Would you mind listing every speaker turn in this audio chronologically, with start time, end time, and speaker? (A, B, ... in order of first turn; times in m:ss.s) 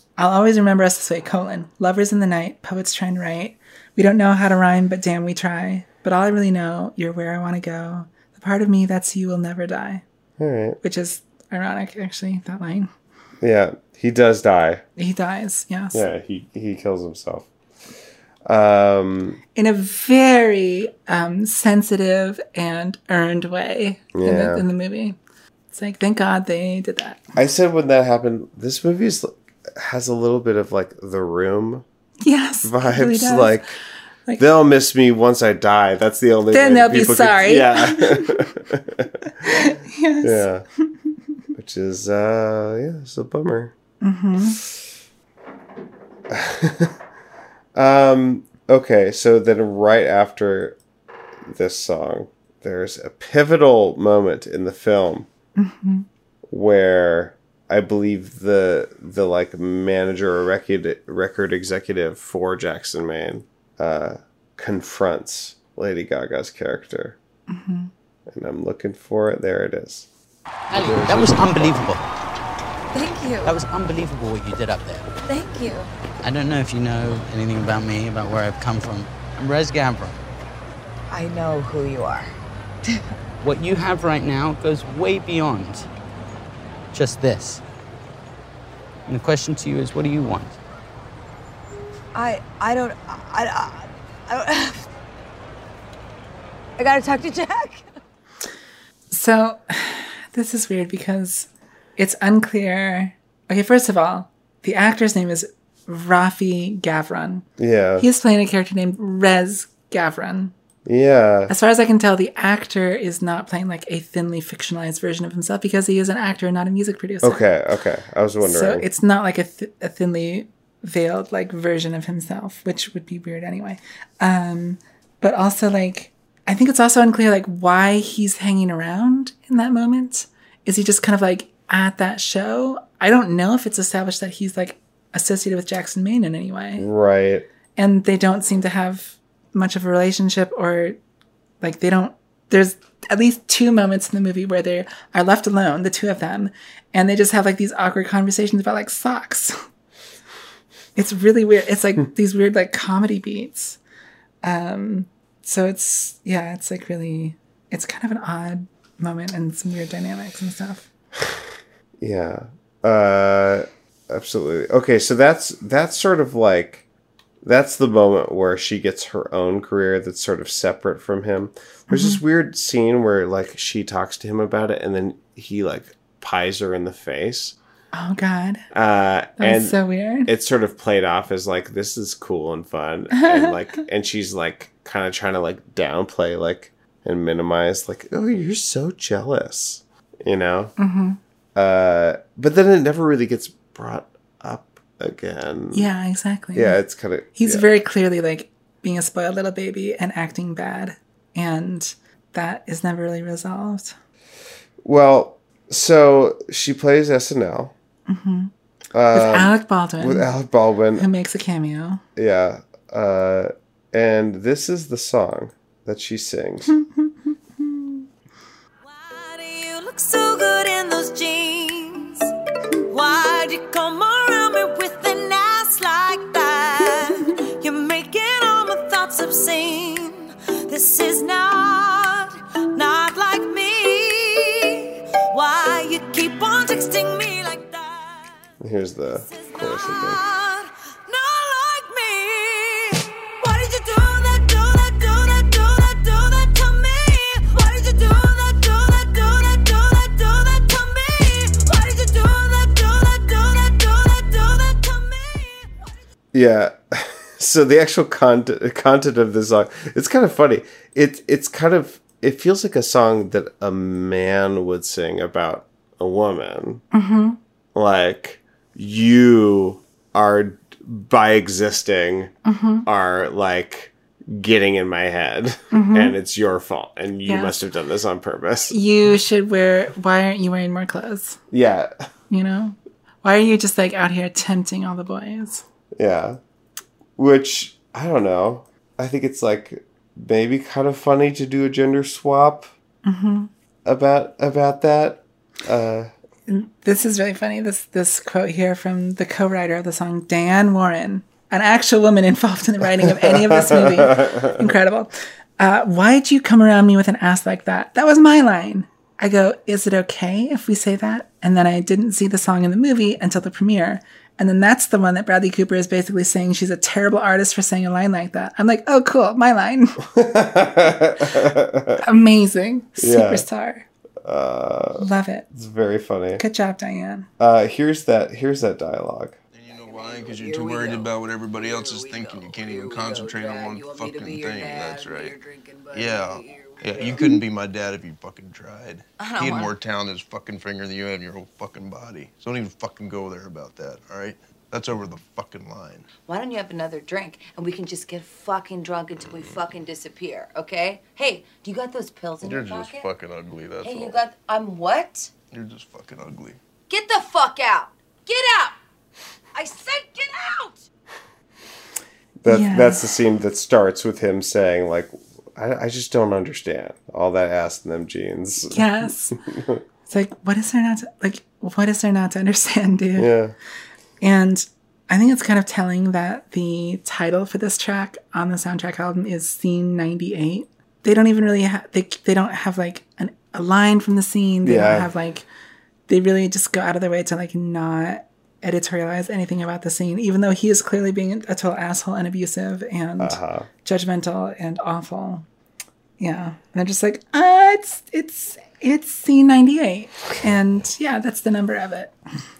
0:00.2-0:10.0 A
0:10.4-0:10.8 B
0:10.8-0:12.9 A
0:13.4-0:14.8 B
0:15.0-0:16.0 A
0:15.9-0:17.5 B
0:18.4-0:19.4 B
0:19.6-0:25.2 A
0:24.1-0:24.6 B
0:25.7-0:27.2 A
0:27.4-0:31.8 B
0:32.2-0:33.6 A
0:32.6-0:33.8 B
0:34.4-0:39.1 B
0:36.5-0:38.4 A
0:39.4-0:40.4 A
0:40.2-0:40.6 B
0:41.5-0:43.7 B
0:44.0-0:44.6 A
0:46.3-0:47.0 B
0:47.7-0:50.8 B
0:51.4-0:55.3 B
0:55.6-0:56.0 A
0:56.5-1:07.2 B
1:07.5-1:07.9 A
1:08.3-1:10.1 B
1:10.7-1:12.0 C
1:12.9-1:13.6 D
1:13.4-1:15.1 C
1:15.2-1:15.9 D
1:16.2-1:20.2 C
1:21.1-1:22.3 D
1:23.4-1:25.9 C
1:26.9-1:27.6 C
1:29.1-1:30.6 C
1:32.1-1:34.9 D
1:36.8-1:37.8 D
1:39.1-1:47.4 A
1:47.6-1:48.1 B
1:48.0-1:50.5 A
1:50.8-1:51.5 B
1:51.5-1:57.4 A
1:57.2-1:58.8 B
1:58.4-2:16.8 A
2:16.8-2:17.5 B
2:17.8-2:21.0 A
2:21.6-2:29.6 A
2:31.0-2:33.8 A
2:34.4-2:40.9 A
2:42.0-2:46.8 B
2:47.4-2:57.6 B
2:51.9-2:52.2 A
2:57.9-2:58.6 A
2:58.7-3:10.7 B
2:59.4-3:00.3 A
3:03.1-3:03.6 A
3:10.8-3:11.2 A
3:11.5-3:15.9 B
3:15.7-3:16.8 A
3:16.5-3:17.6 B
3:17.4-3:23.9 A
3:24.8-3:27.7 B
3:28.1-3:28.5 A
3:28.9-3:31.1 B
3:29.1-3:30.3 A
3:31.0-3:32.0 A
3:32.2-3:36.7 B
3:36.7-3:38.0 A
3:38.9-3:42.2 E
3:42.8-3:54.8 E
3:55.3-3:58.3 E
3:58.6-4:00.2 B
3:59.3-4:15.8 E
4:16.3-4:26.8 B
4:26.9-4:27.4 A
4:27.7-4:32.3 B
4:32.4-4:32.8 A
4:32.8-4:38.8 B
4:35.7-4:36.1 A
4:37.2-4:37.5 A
4:38.7-4:41.4 A
4:41.5-4:41.9 B
4:42.3-4:45.6 A
4:45.9-4:46.4 B
4:47.2-4:52.7 B
4:53.0-4:53.5 A
4:53.8-4:56.1 B
4:56.5-5:20.0 A
5:03.0-5:04.5 B
5:20.1-5:22.0 B
5:22.0-5:23.8 A
5:23.0-5:23.4 B
5:24.2-5:26.4 B
5:25.0-5:25.5 A
5:26.4-5:27.3 A
5:27.4-5:29.4 B
5:29.5-5:46.1 F
5:30.1-5:31.0 D
5:32.3-5:37.3 D
5:39.2-5:39.7 D
5:46.2-5:53.1 D
5:52.4-5:54.2 F
5:53.8-5:55.3 D
5:55.5-5:56.6 F
5:56.9-5:58.8 D
5:59.5-6:00.8 D
6:02.4-6:08.9 B
6:02.4-6:03.1 A
6:08.7-6:09.4 A
6:09.5-6:09.8 B
6:10.1-6:13.3 A
6:13.2-6:13.5 B
6:14.2-6:25.4 A
6:24.6-6:25.1 B
6:26.1-6:35.4 A
6:33.2-6:33.7 B
6:36.2-6:42.1 A